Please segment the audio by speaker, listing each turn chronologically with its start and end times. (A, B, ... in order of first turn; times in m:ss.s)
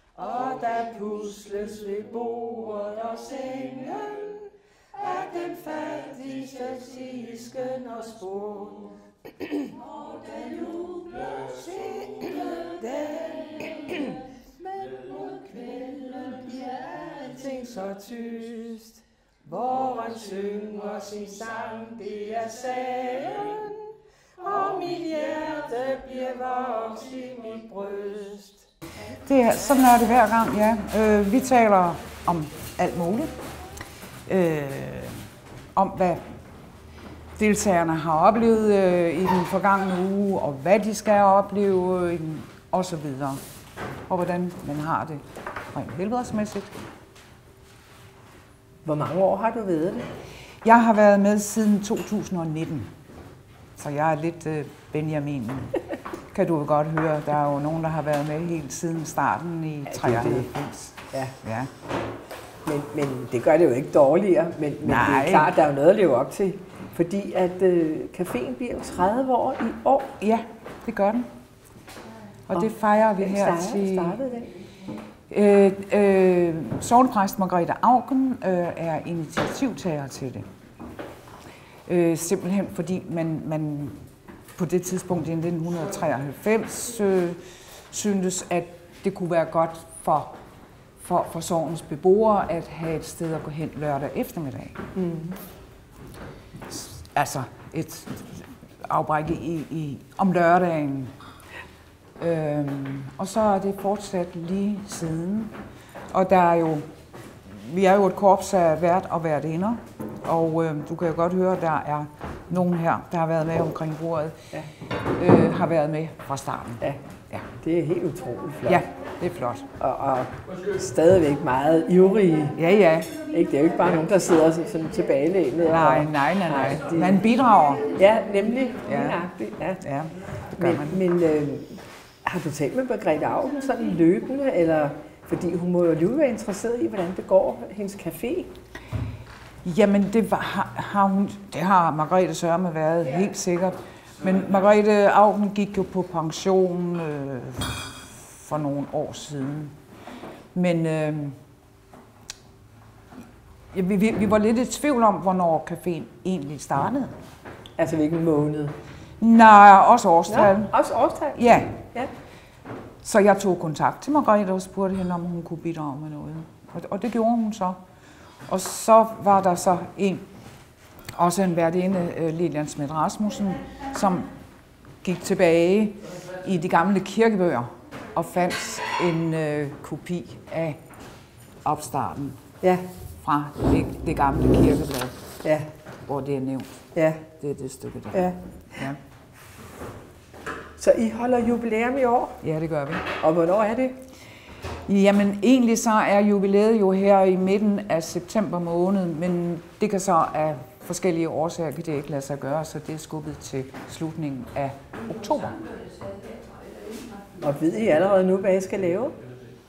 0:00.2-0:08.9 A
0:09.8-0:14.0 A
0:15.0-0:18.8 A
0:18.7-0:19.0 B
0:19.4-0:23.8 A
0:24.4-0:28.6 A
0:29.2-0:33.3 C
0:34.3-0:36.2 C
0:37.4-0:43.4 C
0:44.1-0:45.2 C
0:45.7-0:46.7 C
0:48.8-0:50.1 B
0:50.6-0:52.9 C
0:53.8-0:55.8 C
0:56.3-1:01.7 C
0:59.9-1:00.5 B
1:02.6-1:10.1 B
1:04.8-1:05.5 C
1:10.2-1:11.3 C
1:12.5-1:14.2 C
1:12.5-1:14.5 B
1:15.3-1:20.5 C
1:21.9-1:24.0 C
1:24.6-1:30.3 C
1:31.0-1:34.8 C
1:35.0-1:35.4 B
1:36.7-1:41.1 C
1:42.2-1:45.5 C
1:46.1-1:46.8 C
1:47.5-1:54.4 C
1:55.1-1:57.4 C
1:57.6-1:58.8 B
1:58.7-1:59.7 C
1:59.8-2:02.6 B
2:02.6-2:03.3 C
2:03.2-2:07.2 B
2:05.7-2:07.9 C
2:07.9-2:09.8 B
2:08.8-2:09.2 C
2:09.8-2:11.0 C
2:10.6-2:18.5 B
2:19.6-2:29.7 C
2:30.5-2:31.4 C
2:33.7-2:37.1 C
2:37.8-2:38.7 B
2:39.2-2:40.8 C
2:40.3-2:42.1 B
2:41.3-2:41.8 C
2:43.0-2:47.8 C
2:48.5-2:50.2 C
2:51.1-2:54.3 C
2:55.0-3:00.8 C
3:01.6-3:02.4 C
3:03.2-3:05.2 C
3:06.1-3:06.7 C
3:06.9-3:07.2 B
3:07.3-3:09.0 C
3:08.1-3:08.4 B
3:10.8-3:12.4 B
3:12.4-3:13.1 C
3:13.2-3:14.0 B
3:14.9-3:25.6 C
3:27.4-3:29.1 B